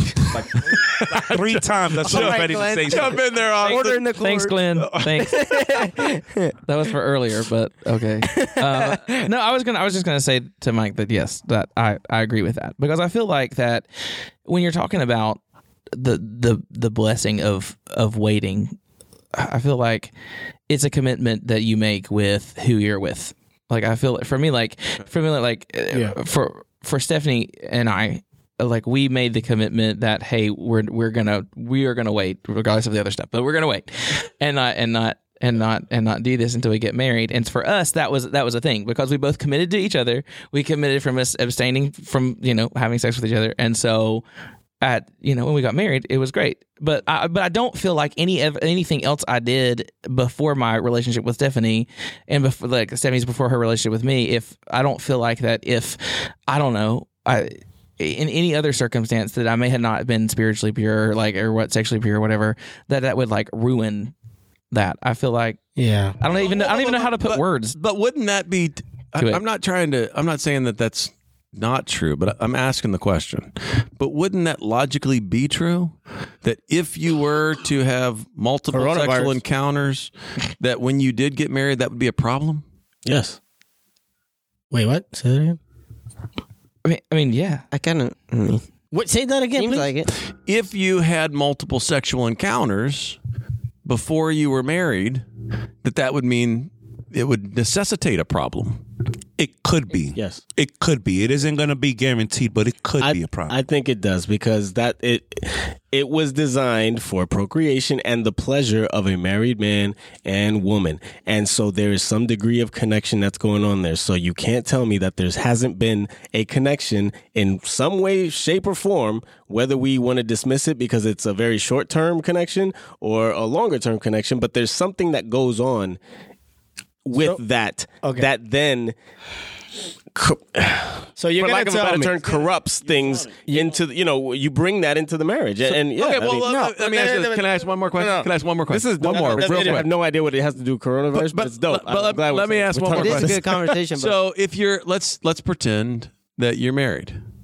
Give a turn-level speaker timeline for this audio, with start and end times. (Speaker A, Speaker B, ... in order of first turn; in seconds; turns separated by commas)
Speaker A: 0.4-4.1, Speaker B: 1.1-3.4, Speaker C: 2.0-6.5, Speaker D: 3.5-6.0, Speaker D: 6.6-13.9, Speaker C: 8.2-9.3, Speaker D: 14.4-15.4, Speaker D: 15.9-18.8, Speaker D: 19.3-20.1, Speaker D: 20.7-44.2, Speaker D: 44.8-64.1, Speaker D: 64.7-65.6, Speaker E: 65.8-66.2, Speaker D: 66.2-67.8, Speaker A: 66.3-82.6, Speaker D: 69.2-69.4, Speaker E: 78.7-79.3, Speaker F: 83.0-83.4, Speaker E: 84.7-85.6, Speaker D: 86.8-87.6, Speaker C: 87.7-88.6, Speaker E: 88.9-89.9, Speaker C: 89.5-90.1, Speaker A: 90.2-93.2, Speaker A: 93.8-95.2, Speaker A: 95.8-98.8, Speaker B: 99.4-103.5, Speaker F: 100.1-100.4, Speaker F: 103.0-126.0, Speaker F: 127.0-128.9, Speaker E: 128.0-128.3, Speaker F: 130.1-136.5, Speaker E: 131.2-132.3, Speaker E: 133.4-133.7, Speaker A: 135.6-139.9, Speaker E: 136.4-138.3, Speaker F: 138.7-143.4, Speaker E: 139.0-139.8, Speaker A: 141.1-147.2, Speaker C: 142.9-144.2